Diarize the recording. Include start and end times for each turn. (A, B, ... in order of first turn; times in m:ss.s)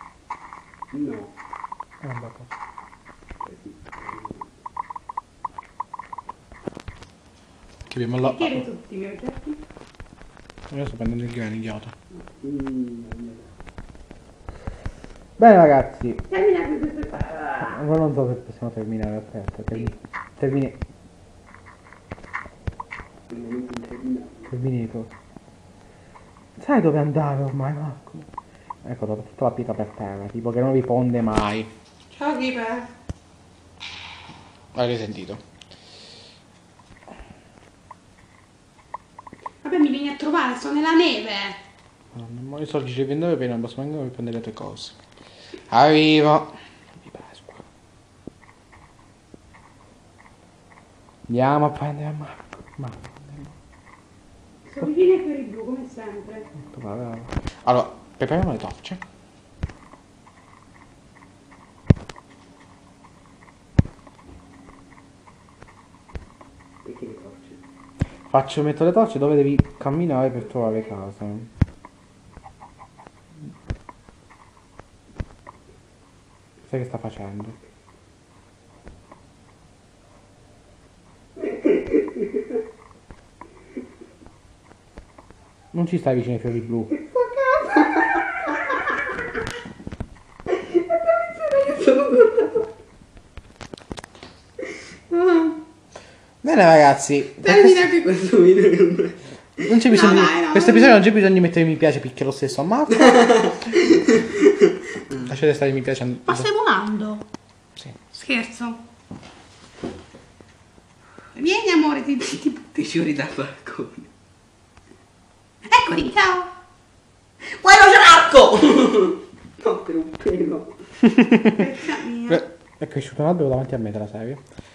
0:00.9-0:01.3 A
0:02.0-0:02.5 B
0:03.4-0:04.5 A
0:07.9-0:08.6 B
0:08.2-0:09.6 C
0:10.7-0:11.9 B
0:12.4-0:13.5 A
0:15.4-0:16.2 B
0:16.3-0:17.8 C
0:17.6-0:20.8 B
0:23.3-0:24.5 A
0:24.5-0:25.1 B
0:26.6-0:28.3 B
0:28.8-0:31.7 B
0:32.1-0:32.9 C
0:34.7-0:35.4 B
0:39.6-0:41.6 C
0:42.1-0:45.0 B
0:45.7-0:47.6 B
0:51.3-0:53.5 B
0:54.7-0:56.5 C
0:56.7-0:59.0 B
1:06.8-1:07.6 A
1:08.3-1:11.5 B
1:16.7-1:17.6 B
1:25.7-1:26.9 B
1:27.1-1:28.1 A
1:27.2-1:27.8 C
1:31.0-1:32.7 A
1:35.1-1:35.5 A
1:36.4-1:37.9 B
1:37.4-1:38.1 C
1:38.0-1:39.2 A
1:39.6-1:43.6 B
1:39.9-1:41.0 C
1:43.2-1:44.2 A
1:45.1-1:46.5 B
1:46.3-1:47.3 C
1:48.1-1:48.8 C
1:51.4-1:52.8 C
1:52.6-1:54.1 A
1:55.7-1:56.5 C
1:57.4-2:00.7 A
2:01.0-2:01.6 B
2:01.5-2:02.4 C
2:02.3-2:04.4 B